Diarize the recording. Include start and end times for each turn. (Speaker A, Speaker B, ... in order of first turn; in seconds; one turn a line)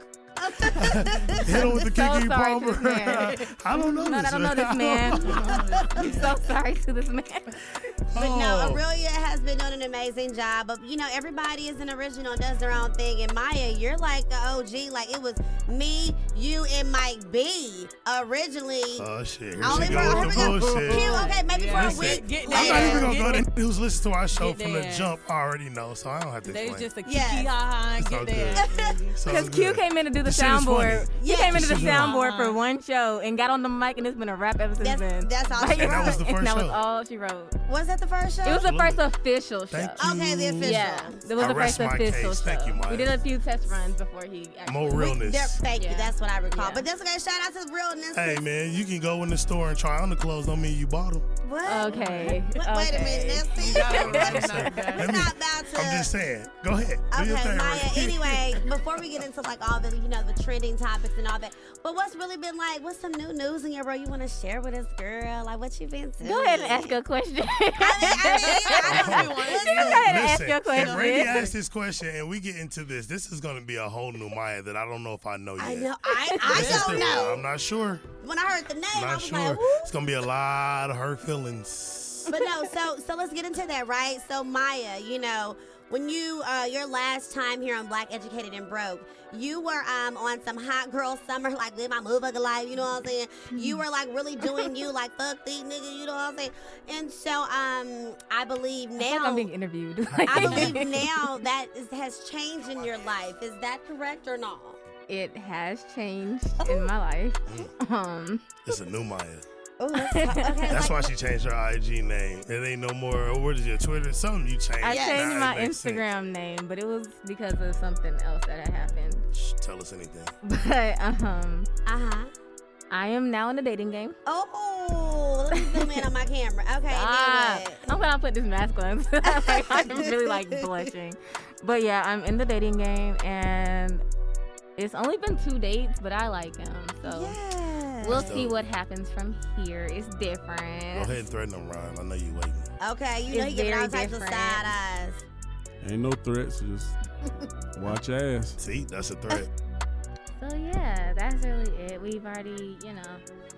Speaker A: 0.4-1.8
Speaker B: 0.6-6.2
Speaker C: 1.8-7.9
Speaker D: 5.2-6.4
Speaker B: 8.1-8.8
Speaker A: 8.1-19.1
Speaker B: 19.0-26.9
Speaker A: 19.6-23.2
Speaker D: 19.6-23.4
Speaker D: 24.3-25.2
Speaker D: 26.4-29.2
Speaker A: 27.0-27.5
Speaker B: 28.0-32.2
Speaker A: 28.6-28.9
Speaker C: 29.2-37.5
Speaker A: 31.2-31.9
Speaker D: 31.7-32.6
Speaker A: 34.8-36.2
Speaker B: 35.6-36.8
Speaker A: 37.7-38.7
Speaker C: 38.4-40.0
Speaker B: 38.4-39.0
Speaker B: 39.7-43.2
Speaker A: 40.0-41.8
Speaker C: 40.6-45.2
Speaker B: 44.6-45.6
Speaker A: 44.9-48.4
Speaker C: 45.7-46.9
Speaker B: 48.1-51.3
Speaker A: 51.4-56.1
Speaker C: 51.6-55.0
Speaker D: 51.9-52.4
Speaker D: 53.6-55.2
Speaker B: 53.7-58.6
Speaker A: 57.1-67.0
Speaker C: 66.2-69.0
Speaker A: 67.8-70.1
Speaker D: 68.6-71.5
Speaker B: 68.8-78.0
Speaker C: 69.5-71.4
Speaker A: 75.6-77.5
Speaker C: 76.1-76.8
Speaker D: 76.6-77.0
Speaker A: 78.2-79.9
Speaker B: 78.9-82.3
Speaker A: 82.3-99.5
Speaker C: 99.0-101.2
Speaker A: 100.3-104.8
Speaker B: 100.4-100.7
Speaker C: 105.1-108.5
Speaker A: 106.6-106.9
Speaker B: 108.7-109.4
Speaker A: 109.8-111.1
Speaker C: 109.9-110.7
Speaker B: 110.7-116.0
Speaker C: 114.8-119.2
Speaker A: 114.8-115.2
Speaker B: 119.3-120.3
Speaker C: 120.4-121.7
Speaker A: 121.8-122.3
Speaker C: 122.9-124.2
Speaker A: 124.2-127.9
Speaker C: 125.5-126.1
Speaker C: 126.9-134.0
Speaker A: 129.3-130.4
Speaker C: 134.8-137.4
Speaker A: 137.0-138.3
Speaker C: 138.0-141.2
Speaker B: 138.1-138.6
Speaker B: 140.9-142.7
Speaker A: 142.8-145.2
Speaker C: 143.3-144.7
Speaker E: 145.8-146.9
Speaker E: 147.8-148.6
Speaker B: 148.6-149.5
Speaker C: 150.4-153.2